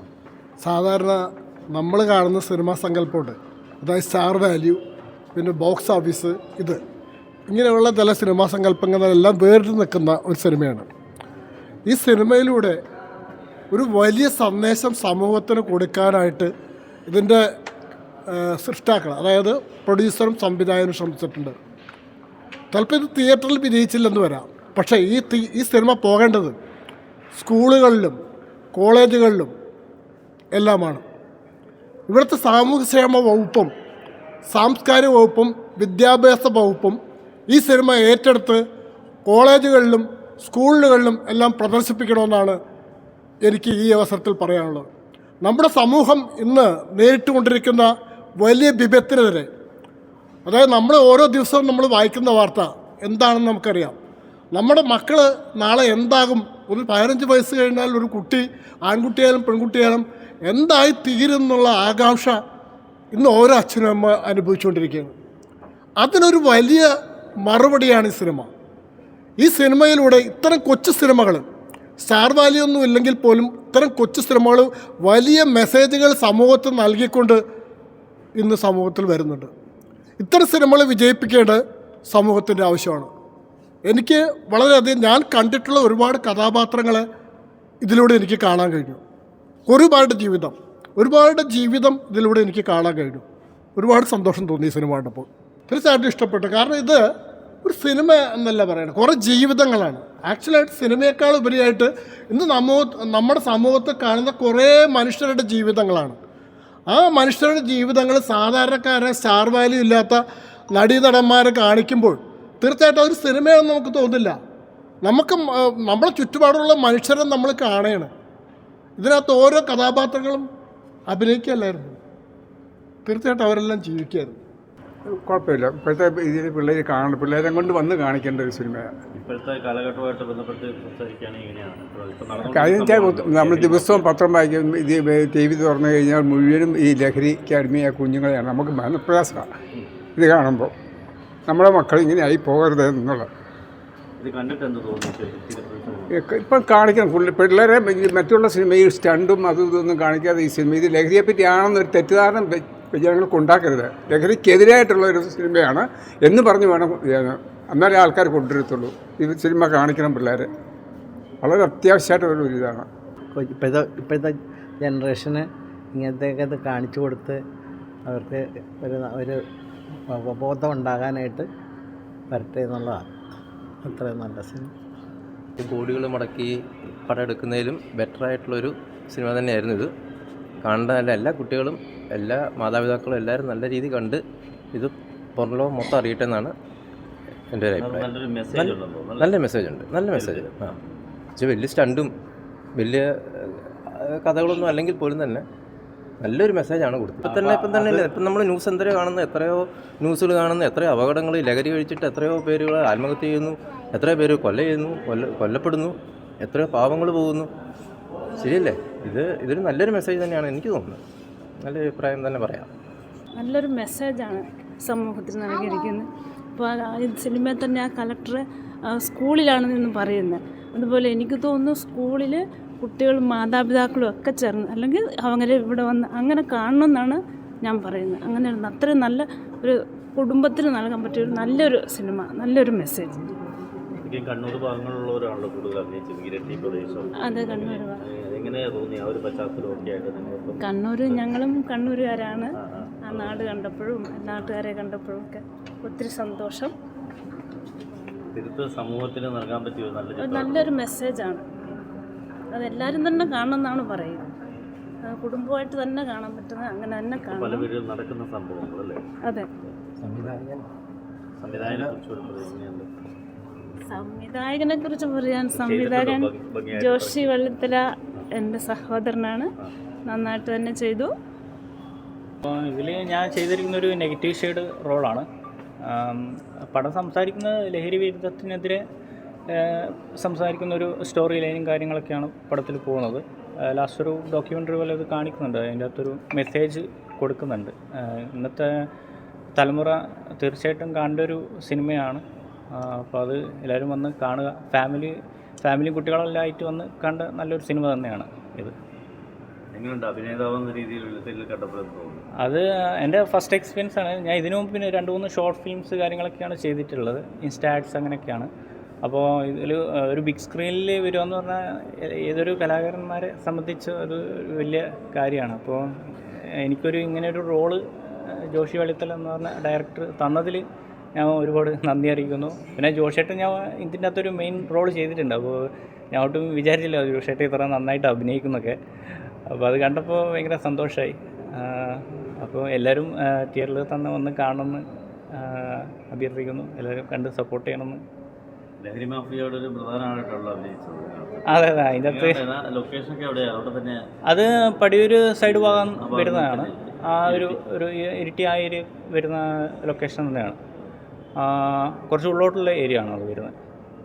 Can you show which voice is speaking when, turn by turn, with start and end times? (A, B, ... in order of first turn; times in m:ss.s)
0:00.6-0:04.8 A
0:05.3-0:06.8 A
0:07.5-0:10.9 A
0:11.9-0:12.8 A
0:13.7-0:16.5 A
0:17.1-0:17.5 A
0:18.3-0:21.6 A
0:22.7-0:26.5 A
0:27.3-0:28.2 A
0:28.7-0:29.5 A
0:30.5-0:31.0 A
0:32.1-0:33.7 A
0:34.5-0:37.0 A
0:37.5-0:38.6 A
0:39.3-0:42.6 A
0:43.4-0:44.9 A
0:45.4-0:49.5 A
0:50.4-0:54.0 A
0:54.5-1:02.4 A
1:03.1-1:05.1 A
1:06.0-1:06.9 A
1:07.4-1:08.5 A
1:09.4-1:11.4 A
1:12.0-1:17.4 A
1:18.4-1:19.5 A
1:20.2-1:23.1 A
1:23.8-1:27.0 A
1:27.8-1:29.0 A
1:29.7-1:33.2 A
1:33.8-1:37.0 A
1:37.6-1:46.2 A
1:46.9-1:50.2 A
1:50.7-1:54.4 A
1:55.0-1:58.1 A
1:59.0-2:00.5 A
2:01.1-2:02.0 A
2:03.0-2:04.4 A
2:05.2-2:08.9 B
2:09.1-2:14.1 C
2:12.4-2:19.5 B
2:20.2-2:20.7 B
2:21.5-2:23.3 B
2:24.2-2:26.2 C
2:26.1-2:40.5 B
2:41.4-2:42.9 B
2:43.3-2:47.4 D
2:48.0-2:49.4 D
2:50.1-2:51.5 D
2:52.3-2:53.1 D
2:53.8-2:54.7 D
2:55.6-2:56.5 E
2:57.0-2:59.9 E
3:00.6-3:04.2 E
3:04.7-3:06.5 E
3:07.5-3:10.7 E
3:07.7-3:09.4 C
3:10.1-3:11.0 C
3:11.4-3:12.1 E
3:12.8-3:15.4 E
3:16.2-3:27.5 E
3:17.2-3:18.2 C
3:28.4-3:31.0 E
3:31.6-3:32.7 E
3:33.4-3:53.2 F
3:54.0-4:01.3 C
3:57.3-3:58.0 F
4:00.6-4:02.5 F
4:02.6-4:03.6 C
4:03.1-4:06.7 F
4:08.3-4:10.8 C
4:10.2-4:11.4 F
4:12.5-4:14.3 F
4:15.0-4:17.7 F
4:17.1-4:19.0 C
4:20.0-4:20.6 D
4:21.4-4:22.9 C
4:21.6-4:21.9 D
4:23.9-4:26.3 F
4:25.5-4:27.3 C
4:26.8-4:27.9 F
4:28.4-4:29.5 F
4:30.1-4:31.1 F
4:32.4-4:35.2 G
4:35.8-4:38.8 G
4:39.5-4:48.9 G
4:49.6-4:58.7 G
4:59.7-5:02.2 C
5:02.4-5:08.5 G
5:09.0-5:20.6 G
5:21.2-5:28.8 G
5:29.5-5:34.8 G
5:35.4-5:38.0 G
5:38.8-5:41.4 C
5:41.5-5:42.4 G
5:42.0-5:44.0 C
5:44.3-5:50.6 G
5:45.4-5:47.6 C
5:51.4-5:53.5 G